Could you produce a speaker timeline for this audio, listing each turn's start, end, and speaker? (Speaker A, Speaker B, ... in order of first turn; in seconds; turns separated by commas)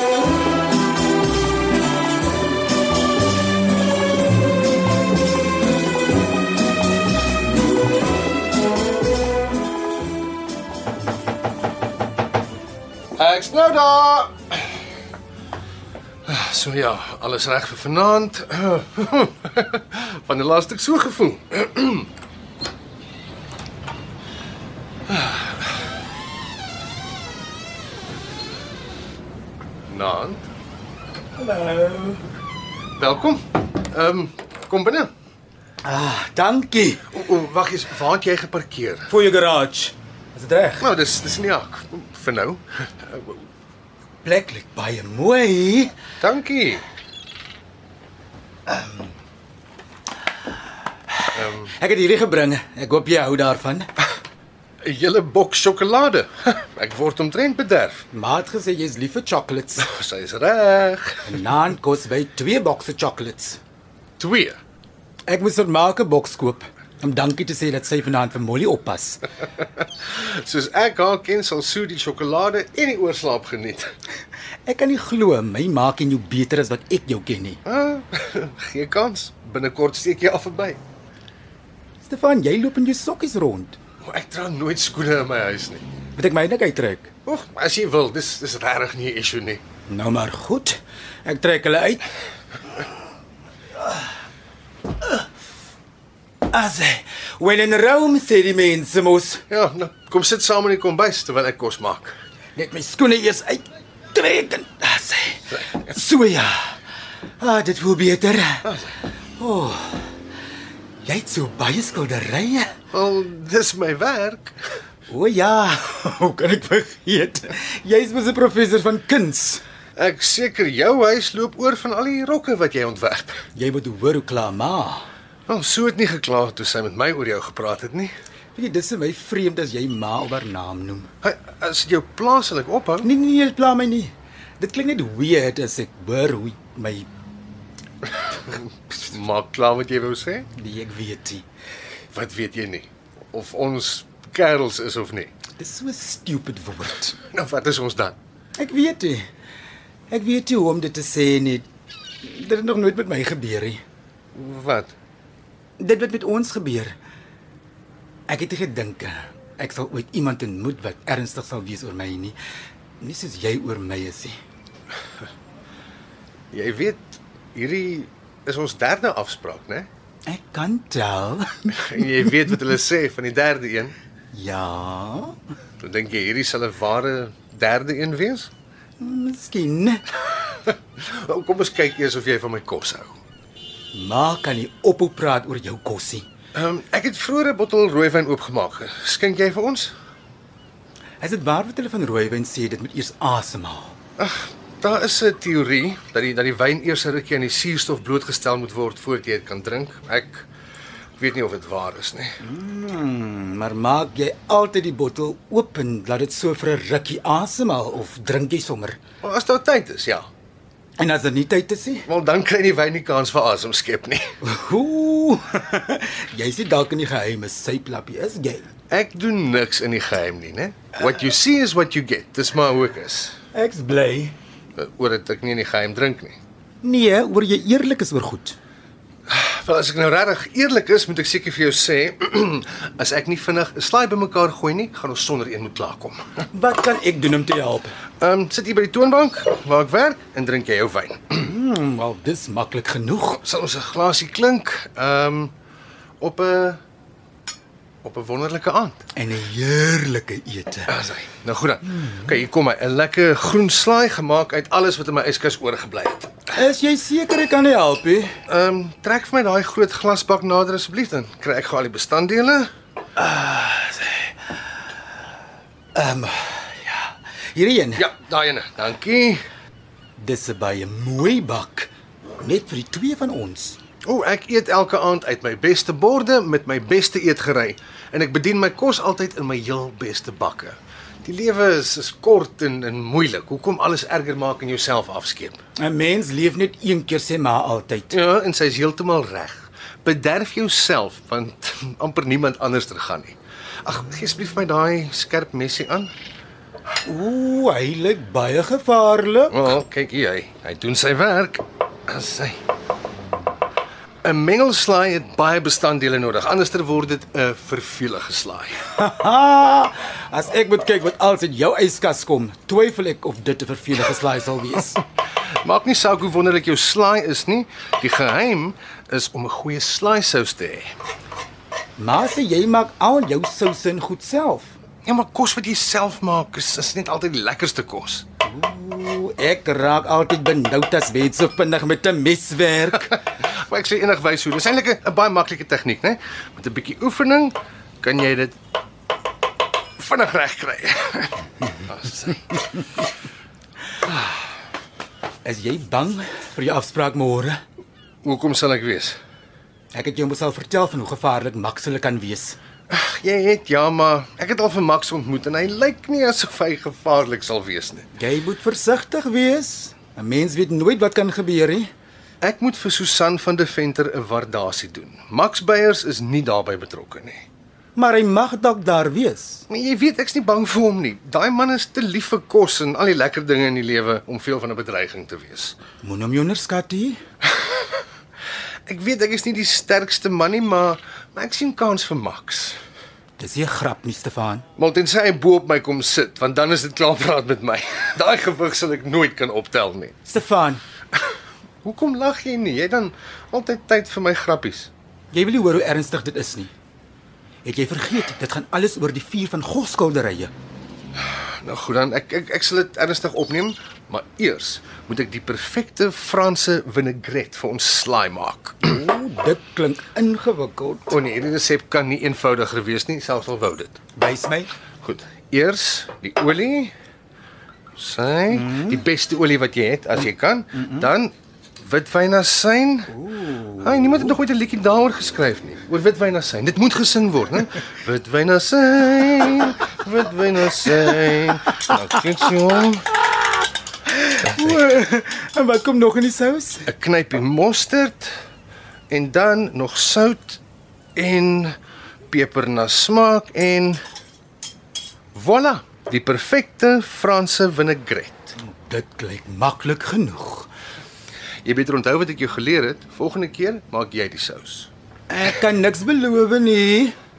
Speaker A: 13.2-14.7, Speaker A: 16.3-22.1, Speaker A: 25.1-25.6, Speaker A: 29.9-30.5, Speaker B: 31.4-32.2, Speaker A: 33.0-35.1, Speaker B: 35.8-37.1, Speaker A: 37.1-39.1, Speaker B: 39.1-40.9, Speaker A: 40.8-43.4, Speaker B: 44.2-45.9, Speaker A: 46.2-46.9, Speaker A: 51.3-51.7, Speaker B: 51.5-53.9, Speaker A: 54.8-58.1, Speaker B: 58.1-59.9, Speaker A: 59.8-61.4, Speaker B: 61.3-63.6, Speaker A: 64.2-64.6, Speaker B: 65.3-69.2, Speaker A: 70.0-73.9, Speaker B: 74.7-77.6, Speaker A: 77.7-80.8, Speaker B: 82.0-83.8, Speaker A: 84.0-85.8, Speaker B: 86.2-87.1, Speaker A: 87.2-89.6, Speaker B: 89.9-92.0, Speaker B: 96.5-99.4, Speaker A: 99.5-102.2, Speaker B: 102.6-106.8, Speaker A: 105.6-105.9, Speaker B: 107.4-108.7, Speaker A: 108.7-109.0, Speaker B: 109.4-110.2, Speaker B: 111.0-112.7, Speaker A: 112.9-114.6, Speaker B: 115.1-119.6, Speaker A: 120.0-123.4, Speaker B: 123.6-125.1, Speaker A: 125.5-128.1, Speaker B: 128.6-131.1, Speaker A: 131.2-133.1, Speaker B: 133.0-137.1, Speaker A: 138.5-140.5, Speaker B: 140.6-141.4, Speaker A: 142.1-145.3, Speaker B: 145.6-147.2, Speaker A: 147.2-148.2, Speaker B: 148.6-149.3, Speaker B: 150.1-151.7, Speaker B: 152.2-153.8, Speaker A: 154.3-154.9, Speaker B: 155.8-157.0, Speaker B: 158.3-162.4, Speaker B: 163.0-164.4, Speaker A: 166.5-169.9, Speaker B: 170.3-172.3, Speaker A: 171.7-173.9, Speaker B: 174.3-175.4, Speaker A: 175.8-178.5, Speaker B: 179.0-180.0, Speaker A: 180.5-183.2, Speaker B: 183.9-186.3, Speaker A: 186.5-189.9, Speaker B: 191.2-193.9, Speaker A: 194.2-200.5, Speaker A: 201.2-202.4, Speaker B: 202.4-209.0, Speaker A: 209.2-210.3, Speaker B: 211.0-212.1, Speaker A: 212.1-214.3, Speaker B: 214.4-218.7, Speaker A: 218.9-223.4, Speaker B: 223.5-224.3, Speaker A: 224.8-226.4, Speaker B: 226.8-228.6, Speaker A: 229.3-236.2, Speaker B: 236.5-237.9, Speaker A: 238.2-241.5, Speaker B: 241.4-243.4, Speaker A: 243.4-245.5, Speaker A: 246.2-246.8, Speaker A: 248.0-249.0, Speaker B: 249.2-250.9, Speaker A: 250.9-256.4, Speaker B: 251.8-252.4, Speaker B: 256.5-258.3, Speaker A: 258.5-262.7, Speaker B: 263.2-264.3, Speaker B: 265.9-268.1, Speaker A: 268.0-269.4, Speaker B: 270.2-271.9, Speaker B: 272.4-273.8, Speaker A: 274.1-285.6, Speaker B: 285.8-288.1, Speaker A: 288.1-296.1, Speaker B: 297.1-299.7, Speaker A: 299.5-302.6, Speaker A: 304.2-308.8, Speaker B: 308.9-315.0, Speaker A: 315.6-320.9, Speaker B: 322.0-324.8, Speaker A: 325.1-328.3, Speaker B: 328.4-333.2, Speaker A: 333.2-338.6, Speaker A: 340.0-342.6, Speaker B: 345.4-347.6, Speaker A: 348.2-349.2, Speaker B: 349.9-352.6, Speaker A: 352.9-358.1, Speaker B: 358.2-361.9, Speaker A: 362.4-367.5, Speaker B: 368.0-369.6, Speaker A: 369.7-375.8, Speaker B: 376.0-377.2, Speaker A: 378.9-382.8, Speaker B: 383.4-384.7, Speaker A: 384.8-390.2, Speaker B: 390.3-390.8, Speaker A: 391.8-394.9, Speaker B: 395.3-396.7, Speaker B: 397.6-400.5, Speaker A: 401.2-408.9, Speaker B: 408.8-411.2, Speaker A: 411.1-414.0, Speaker B: 414.2-414.7, Speaker A: 415.0-416.9, Speaker A: 418.0-423.2, Speaker B: 418.5-419.0, Speaker B: 423.1-424.4, Speaker A: 423.8-433.1, Speaker B: 434.1-436.9, Speaker A: 434.5-434.8, Speaker A: 436.9-438.3, Speaker A: 439.1-440.6, Speaker A: 441.1-441.8, Speaker A: 442.3-444.0, Speaker A: 445.3-448.6, Speaker B: 448.6-450.7, Speaker A: 451.6-454.9, Speaker B: 455.3-457.1